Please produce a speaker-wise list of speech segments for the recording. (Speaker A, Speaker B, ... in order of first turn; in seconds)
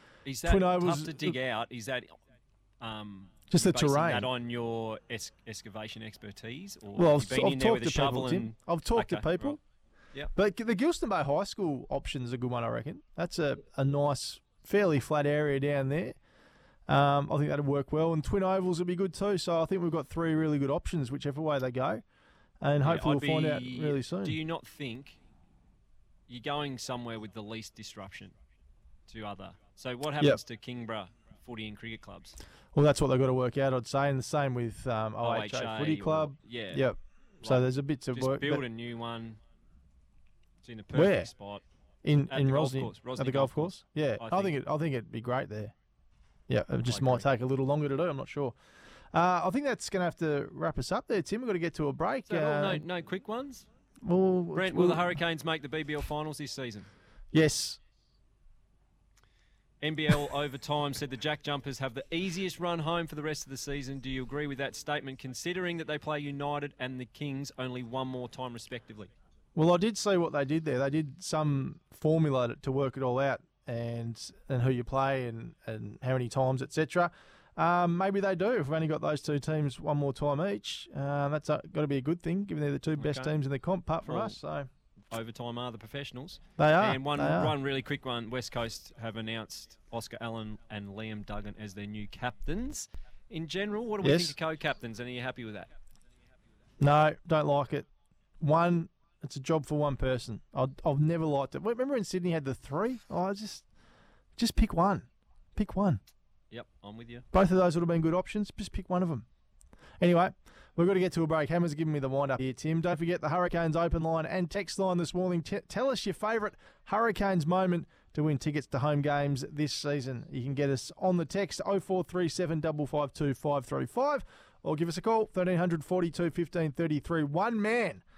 Speaker A: 0.2-2.2, 2.8-9.6, 22.8-25.2, 26.3-28.4, 29.1-32.4, 35.2-36.9, 37.4-39.4, 40.6-41.6, 42.3-44.6, 46.9-47.3, 52.3-53.7, 54.5-56.9, 59.8-69.1, 83.0-83.3, 84.0-84.4, 85.1-95.7, 106.5-107.3
Speaker B: 0.4-1.4, 3.5-4.3, 7.0-9.6, 10.3-16.2, 16.9-22.0, 22.6-24.4, 32.7-38.6, 40.9-41.3, 42.0-45.7, 46.5-48.5, 49.1-52.9, 54.0-55.1, 57.3-57.8, 69.5-84.7, 86.6-87.6, 94.0-94.4, 96.8-97.9, 98.4-103.7, 104.4-106.0, 107.3-109.3, 110.0-128.0